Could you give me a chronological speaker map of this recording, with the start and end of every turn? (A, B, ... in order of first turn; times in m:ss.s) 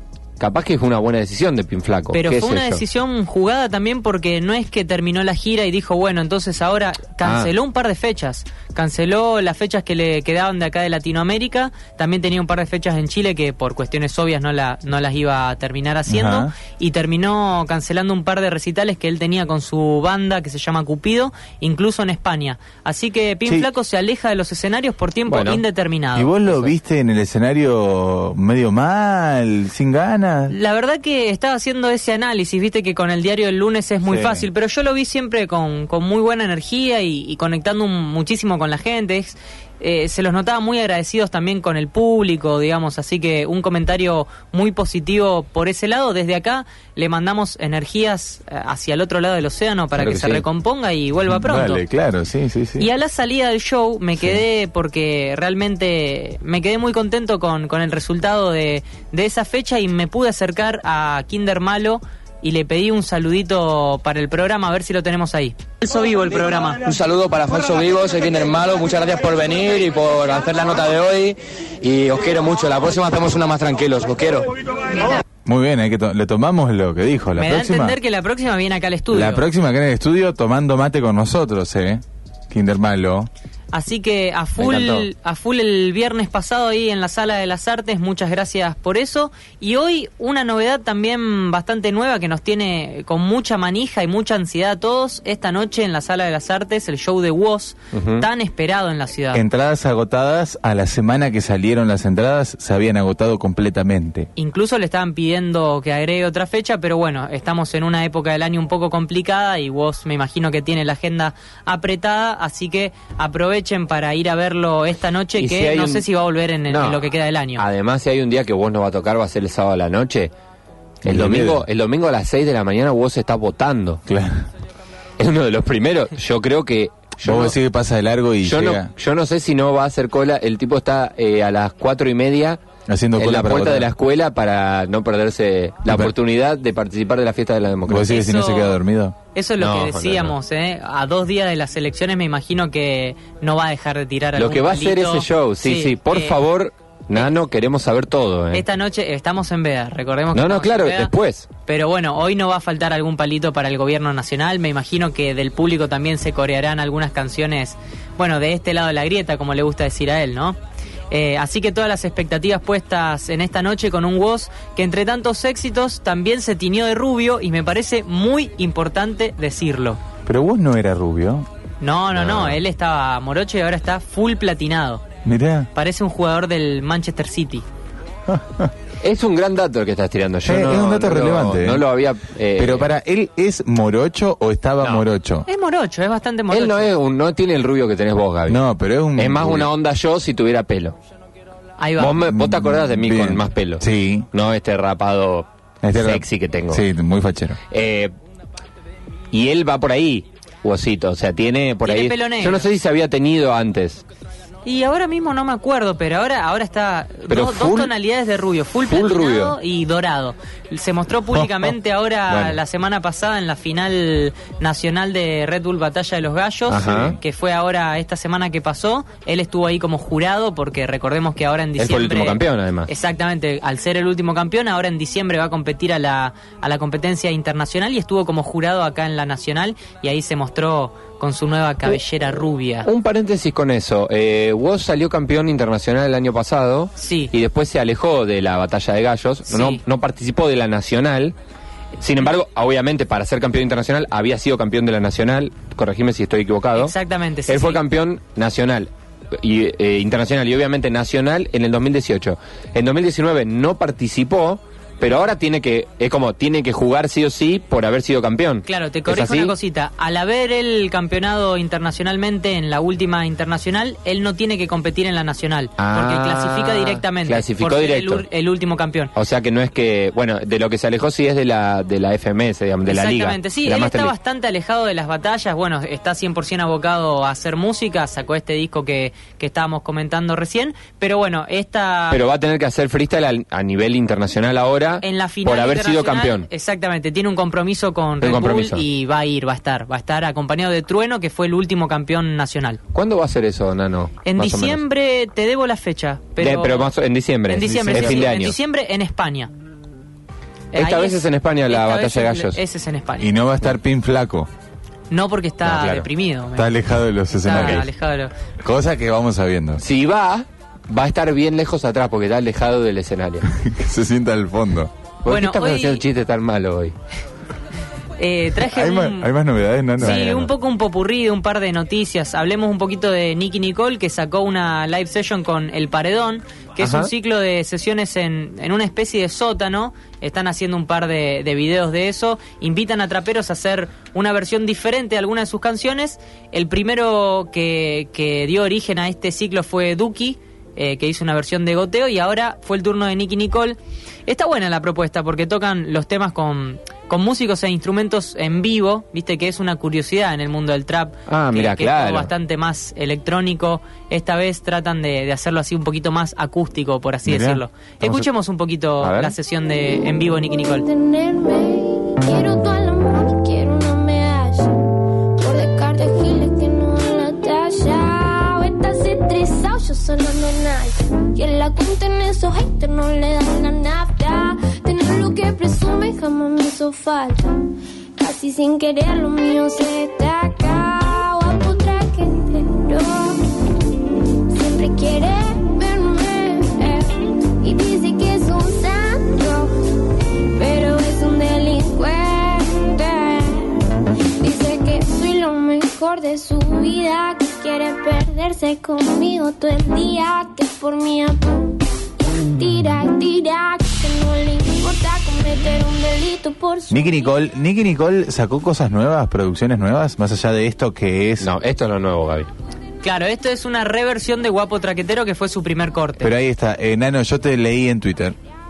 0:00.4-0:02.8 A
0:02.1-0:26.7 B
0:07.2-0:07.5 A
0:16.1-0:16.5 C
0:25.3-0:25.6 A
0:26.1-0:30.5 C
0:30.5-0:51.8 B
0:34.0-0:34.4 C
0:50.0-0:50.4 A
0:51.3-0:52.9 C
0:52.8-1:06.8 B
1:06.9-1:14.5 D
1:15.4-1:18.0 C
1:17.4-1:19.4 B
1:19.1-1:23.3 C
1:23.7-1:39.4 B
1:24.6-1:25.1 A
1:37.9-1:38.3 A
1:39.3-1:44.3 C
1:44.4-1:57.6 B
1:55.4-1:56.0 A
1:56.7-2:00.3 A
2:01.0-2:01.6 C
2:01.0-2:04.0 A
2:04.1-2:04.4 C
2:05.2-2:07.6 A
2:07.2-2:08.9 C
2:08.4-2:12.6 A
2:12.9-2:13.9 C
2:13.2-2:18.1 A
2:15.8-2:16.1 C
2:17.9-2:19.2 C
2:18.1-2:18.8 B
2:19.3-2:26.4 B
2:19.6-2:20.3 A
2:24.4-2:28.6 A
2:28.5-2:31.1 B
2:30.3-2:31.5 A
2:31.7-2:40.6 B
2:41.1-2:50.0 B
2:50.2-2:51.5 C
2:51.8-2:55.0 B
2:52.1-2:52.6 A
2:55.2-2:55.7 C
2:55.7-2:57.6 B
2:58.3-2:58.7 C
2:59.0-3:02.9 A
3:00.4-3:01.9 C
3:02.6-3:05.5 C
3:05.5-3:06.9 B
3:06.5-3:08.6 A
3:08.5-3:09.7 C
3:09.2-3:11.0 A
3:11.8-3:12.2 B
3:12.0-3:16.8 A
3:12.2-3:14.3 C
3:15.8-3:17.6 C
3:17.7-3:18.1 A
3:19.3-3:24.0 A
3:21.8-3:22.7 B
3:24.6-3:52.9 B
3:27.3-3:27.9 A
3:28.9-3:29.6 A
3:31.3-3:31.7 C
3:32.3-3:32.6 A
3:36.7-3:37.2 A
3:41.8-3:42.9 A
3:52.8-4:01.3 A
3:57.0-3:57.3 B
3:59.5-3:59.8 B
4:02.0-4:06.9 A
4:06.8-4:07.8 B
4:07.5-4:19.5 A
4:18.6-4:29.1 B
4:25.8-4:28.2 A
4:29.1-4:34.1 A
4:32.9-4:42.2 B
4:42.1-4:46.5 A
4:45.0-4:52.8 B
4:48.2-4:48.8 A
4:52.9-4:54.8 A
4:54.2-4:56.9 B
4:56.4-4:58.6 A
4:57.5-4:59.5 B
4:57.6-4:58.3 C
5:00.7-5:03.3 B
5:00.7-5:02.6 A
5:03.2-5:04.5 C
5:05.1-5:06.7 B
5:05.6-5:06.1 A
5:06.6-5:07.9 C
5:07.4-5:08.3 B
5:07.5-5:07.8 A
5:08.6-5:09.8 C
5:09.8-5:13.5 A
5:13.5-5:14.9 C
5:15.2-5:16.9 A
5:15.2-5:16.0 B
5:18.2-5:19.3 B
5:18.6-5:20.5 C
5:20.0-6:00.9 B
5:26.8-5:27.1 A
5:51.3-5:52.3 A
5:57.2-5:58.3 C
5:59.0-5:59.3 A
6:00.9-6:04.8 E
6:05.4-6:17.6 E
6:18.2-6:23.4 E
6:24.5-6:29.8 E
6:30.5-6:33.8 E
6:34.4-6:47.3 E
6:46.9-6:51.5 C
6:51.4-6:52.5 A
6:53.0-6:56.3 B
6:56.2-6:58.4 C